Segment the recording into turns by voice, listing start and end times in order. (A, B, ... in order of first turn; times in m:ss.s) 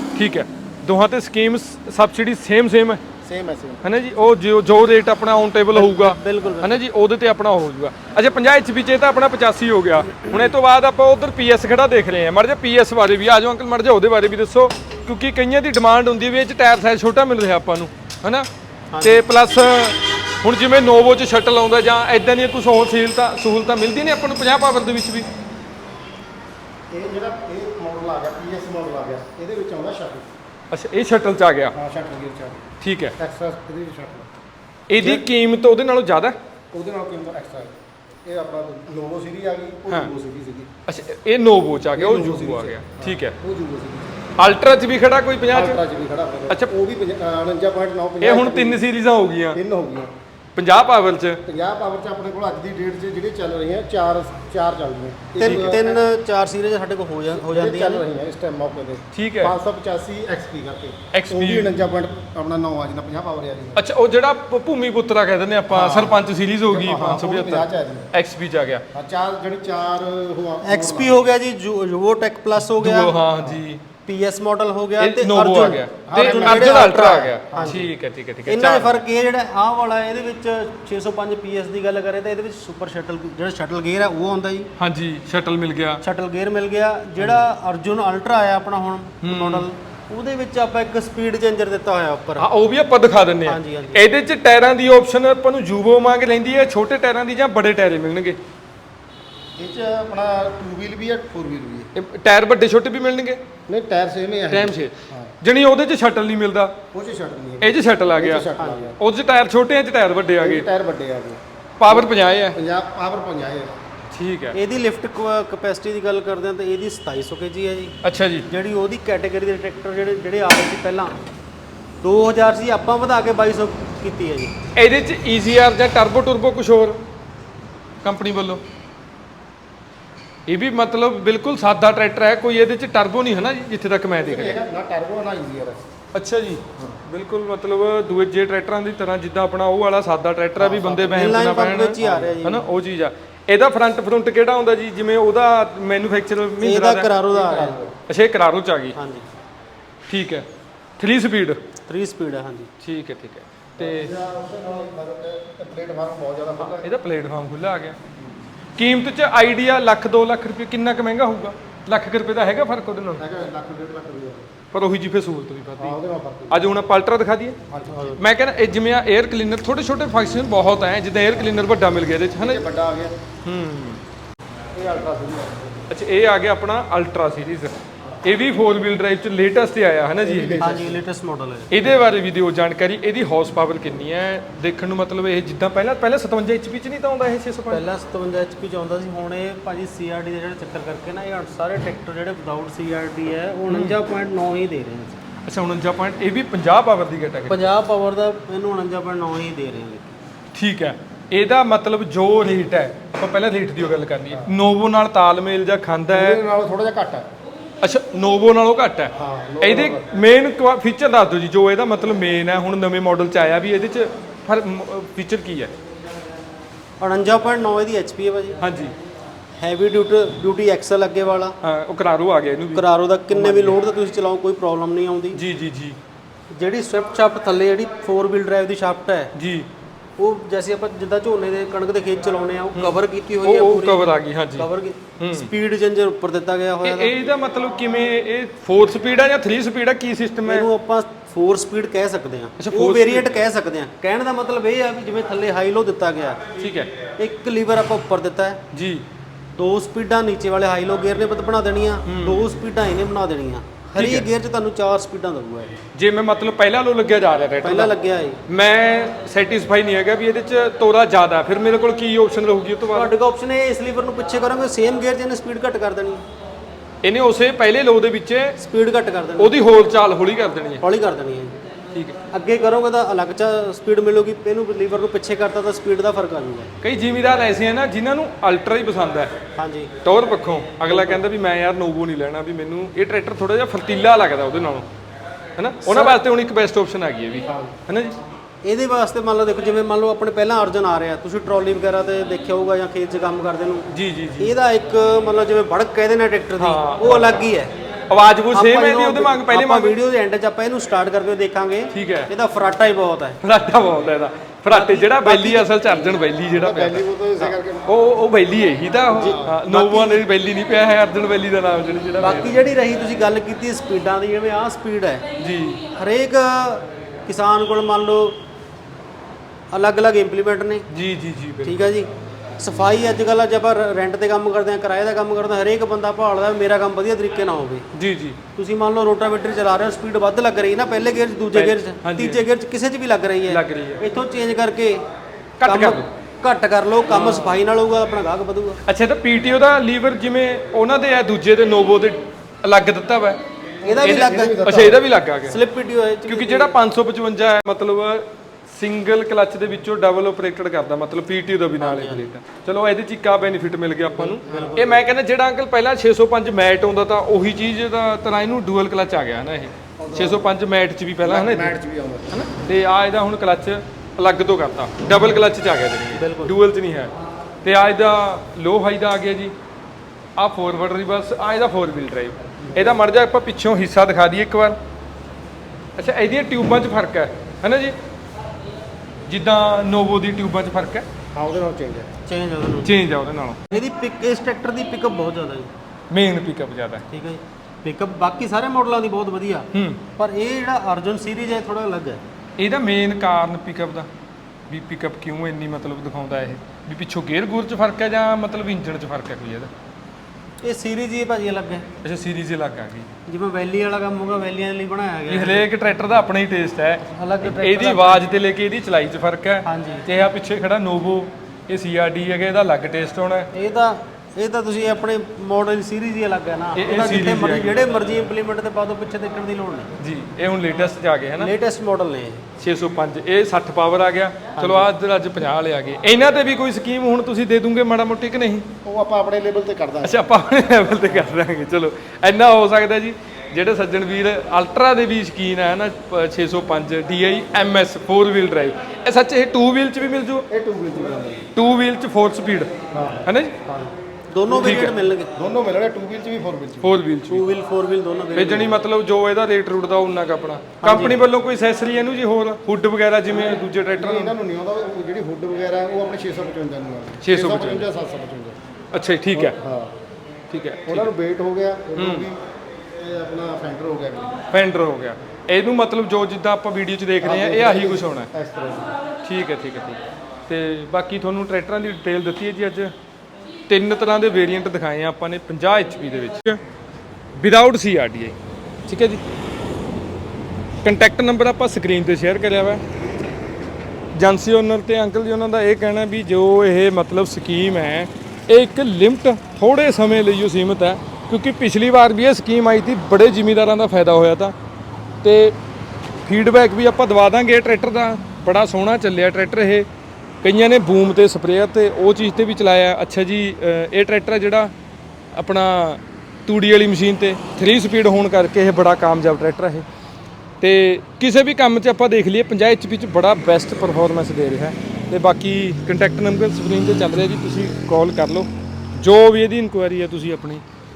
0:00.2-0:03.0 A
0:03.2-0:03.8 B
0:03.8-0:18.5 A
0:05.7-0:06.8 C
0:10.1-0:10.5 C
0:18.9-0:19.2 C
0:19.0-0:25.3 A
0:26.9-0:30.3 B
0:30.7-0:31.8 A
0:31.7-0:32.7 B
0:32.8-0:33.2 A
0:33.2-0:34.3 B
0:34.9-0:36.4 A
0:35.0-0:35.2 B
0:36.7-0:40.7 B
0:40.9-0:43.4 A
0:42.0-0:44.2 B
0:44.4-0:45.8 A
0:45.5-0:48.8 B
0:48.2-0:49.6 A
0:49.5-0:50.1 B
0:50.6-0:51.4 A
0:51.5-0:56.0 B
0:55.4-0:55.8 A
0:55.4-0:58.0 C
0:57.4-1:03.8 B
0:59.1-0:59.6 A
1:01.1-1:01.7 A
1:03.8-1:08.8 A
1:05.7-1:08.1 B
1:08.9-1:11.3 B
1:10.6-1:13.2 C
1:12.8-1:13.8 A
1:14.1-1:17.9 C
1:15.0-1:19.0 A
1:16.1-1:17.8 B
1:18.5-1:24.7 C
1:24.8-1:26.0 A
1:26.0-1:32.5 C
1:29.2-1:29.7 A
1:32.4-1:38.4 A
1:33.4-1:34.0 C
1:39.6-1:41.9 B
1:42.0-1:43.4 A
1:43.7-1:45.3 B
1:44.5-1:46.8 A
1:46.9-1:49.0 B
1:47.6-1:50.7 A
1:48.6-1:48.9 C
1:50.4-1:53.8 B
1:51.8-1:52.6 A
1:54.1-1:54.6 A
1:54.5-1:58.0 C
1:58.0-1:58.5 A
1:58.5-2:01.1 C
2:02.0-2:04.5 C
2:04.8-2:07.0 A
2:08.0-2:08.6 A
2:10.5-2:14.6 A
2:14.2-2:15.8 B
2:16.1-2:27.1 A
2:20.6-2:21.3 B
2:21.0-2:22.6 C
2:22.0-2:22.3 B
2:26.6-2:27.8 C
2:27.3-2:27.9 B
2:28.1-2:29.0 A
2:28.9-2:29.3 C
2:30.1-2:30.5 A
2:31.0-2:31.6 A
2:31.9-2:32.7 C
2:32.8-2:34.1 A
2:33.8-2:36.9 B
2:36.6-2:38.0 A
2:38.8-2:43.3 A
2:43.2-2:44.5 B
2:44.7-2:47.6 A
2:45.8-2:46.6 B
2:47.7-2:48.2 B
2:47.9-2:48.2 C
2:48.2-2:52.6 A
2:52.4-2:53.2 B
2:53.4-2:54.0 A
2:54.7-2:55.8 B
2:55.9-3:00.6 A
3:00.2-3:01.0 B
3:00.6-3:01.8 C
3:01.7-3:07.8 A
3:07.7-3:15.2 C
3:13.7-3:14.0 A
3:15.5-3:17.7 A
3:17.5-3:20.2 C
3:20.5-3:26.4 A
3:26.1-3:27.3 B
3:27.8-3:35.7 A
3:29.2-3:30.1 B
3:37.0-3:38.6 C
3:38.6-3:38.9 A
3:39.6-3:41.6 C
3:41.6-3:43.8 A
3:42.7-3:45.4 C
3:45.3-3:46.0 A
3:46.5-3:49.3 C
3:49.4-3:49.7 A
3:50.2-3:57.2 C
3:52.8-3:54.7 A
3:55.2-3:55.5 A
3:56.8-4:00.7 A
4:00.5-4:06.5 C
4:02.6-4:03.4 A
4:06.6-4:06.9 A
4:07.2-4:08.6 C
4:08.7-4:09.0 A
4:09.5-4:15.8 C
4:12.1-4:12.5 A
4:14.0-4:14.3 A
4:16.0-4:18.0 A
4:17.6-4:18.4 C
4:18.5-4:23.1 A
4:22.9-4:26.2 C
4:27.0-4:28.6 A
4:28.6-4:29.6 C
4:29.4-4:30.8 A
4:30.8-4:31.6 C
4:32.3-4:36.7 C
4:36.8-4:39.3 A
4:39.6-4:39.9 C
4:40.0-4:44.9 A
4:40.9-4:41.2 C
4:45.6-4:48.2 A
4:45.8-4:46.2 C
4:48.6-4:53.9 C
4:53.9-4:54.5 A
4:54.4-4:57.7 C
4:56.6-4:57.3 A
4:58.1-5:00.0 A
4:58.5-5:03.4 C
5:01.9-5:02.3 A
5:03.4-5:12.6 A
5:04.7-5:06.1 C
5:06.5-5:07.9 B
5:09.1-5:10.2 C
5:09.2-5:09.6 B
5:12.2-5:15.2 C
5:15.4-5:15.8 A
5:15.9-5:18.4 C
5:19.7-5:20.9 C
5:20.9-5:21.8 A
5:21.6-5:27.9 C
5:27.9-5:28.4 A
5:28.6-5:35.0 C
5:31.5-5:32.4 A
5:33.5-5:34.0 A
5:35.6-5:36.1 A
5:35.6-5:38.8 C
5:37.1-5:37.6 A
5:38.8-5:43.4 A
5:43.8-5:44.6 C
5:43.8-5:45.0 B
5:44.0-5:45.6 A
5:45.5-5:46.8 C
5:46.3-6:01.8 A
5:51.8-5:52.3 C
5:54.2-5:55.0 C
5:54.4-5:55.0 B
6:00.0-6:00.5 B
6:01.2-6:02.3 B
6:02.3-6:07.1 A
6:06.1-6:06.6 C
6:07.6-6:09.5 A
6:10.4-6:14.8 A
6:12.6-6:13.0 B
6:16.0-6:18.0 A
6:19.3-6:21.1 A
6:21.3-6:22.1 B
6:22.3-6:22.9 C
6:22.8-6:23.7 A
6:23.7-6:25.7 C
6:26.1-6:27.0 A
6:27.1-6:32.2 C
6:29.7-6:30.0 A
6:32.6-6:34.1 A
6:34.7-6:39.7 A
6:40.6-6:41.9 C
6:42.0-6:43.1 A
6:43.3-6:45.7 C
6:45.3-6:53.5 A
6:47.1-6:48.3 C
6:49.6-6:50.1 C
6:53.5-6:59.9 C
6:56.8-6:57.8 A
7:00.0-7:01.5 A
7:01.4-7:02.4 C
7:02.6-7:08.7 A
7:04.6-7:04.9 C
7:08.8-7:10.2 B
7:10.0-7:20.5 A
7:20.5-7:21.5 B
7:21.5-7:22.7 A
7:22.9-7:23.9 B
7:23.2-7:23.5 A
7:24.3-7:25.3 C
7:24.5-7:25.0 A
7:25.4-7:27.0 B
7:26.8-7:27.5 A
7:27.3-7:28.8 C
7:28.3-7:34.4 A
7:30.8-7:31.2 C
7:34.0-7:38.6 B
7:37.2-7:37.9 A
7:38.9-7:39.6 A
7:39.3-7:40.0 B
7:40.5-7:41.1 A
7:40.9-7:42.4 B
7:42.0-7:42.3 A
7:42.9-7:44.3 B
7:44.5-7:48.3 A
7:47.2-7:48.9 B
7:49.2-7:52.9 A
7:53.7-7:56.6 A
7:57.4-7:58.4 A
7:58.9-7:59.2 A
8:00.8-8:02.8 A
8:04.1-8:14.5 A
8:15.2-8:15.6 A
8:16.2-8:19.9 A
8:20.4-8:24.7 A
8:25.3-8:29.9 A
8:30.6-8:40.6 A